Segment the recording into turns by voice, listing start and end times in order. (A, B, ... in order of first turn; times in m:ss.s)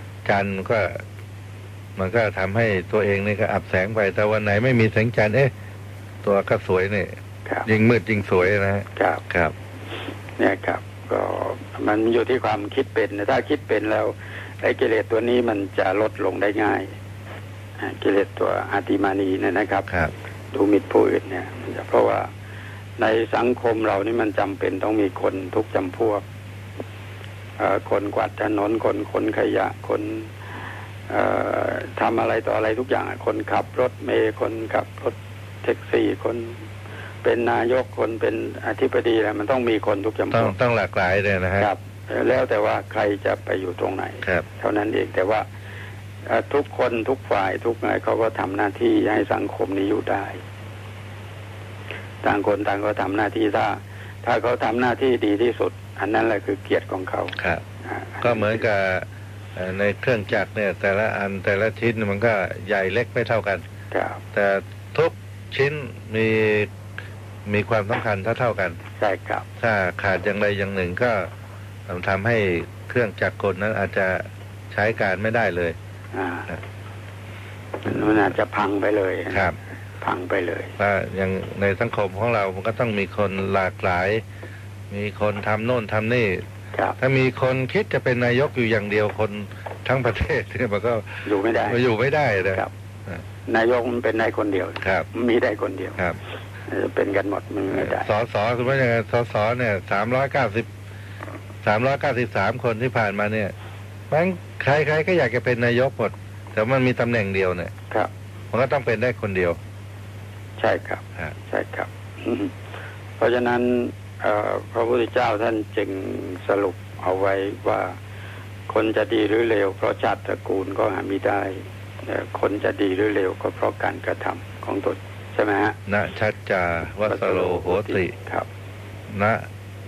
0:00.2-0:01.0 A
0:02.0-0:05.5 A
0:06.2-0:07.1 A
0:07.6-0:09.5 A
0:09.0-0:09.2 B
0:10.4-0:16.9 B
0:17.8-0:19.9 B
0:20.5-0:22.3 B
0:23.0-0:26.2 B
0:27.6-0:30.3 B
0:31.1-0:36.6 B
0:37.2-0:40.5 B
0:40.3-0:41.7 A
0:41.6-0:45.4 B
0:46.2-0:50.4 B
0:52.2-0:58.6 B
0:57.4-0:57.6 A
0:58.2-1:03.6 A
1:03.9-1:04.2 B
1:04.3-1:06.7 A
1:07.4-1:08.8 A
1:09.0-1:09.4 B
1:09.6-1:11.3 A
1:11.9-1:15.8 A
1:16.1-1:16.5 B
1:17.8-1:20.7 B
1:17.8-1:18.4 A
1:19.3-1:19.6 A
1:20.8-1:24.2 A
1:24.9-1:26.4 A
1:27.0-1:33.2 A
1:31.2-1:31.8 B
1:33.5-1:36.0 B
1:34.8-1:35.1 A
1:36.7-1:38.1 B
1:37.7-1:40.7 A
1:41.6-1:43.5 A
1:44.1-1:47.7 A
1:48.5-1:49.6 A
1:50.6-1:52.5 B
1:53.2-1:58.0 B
1:58.7-2:05.8 B
2:05.9-2:08.1 A
2:07.0-2:08.5 B
2:09.1-2:09.4 A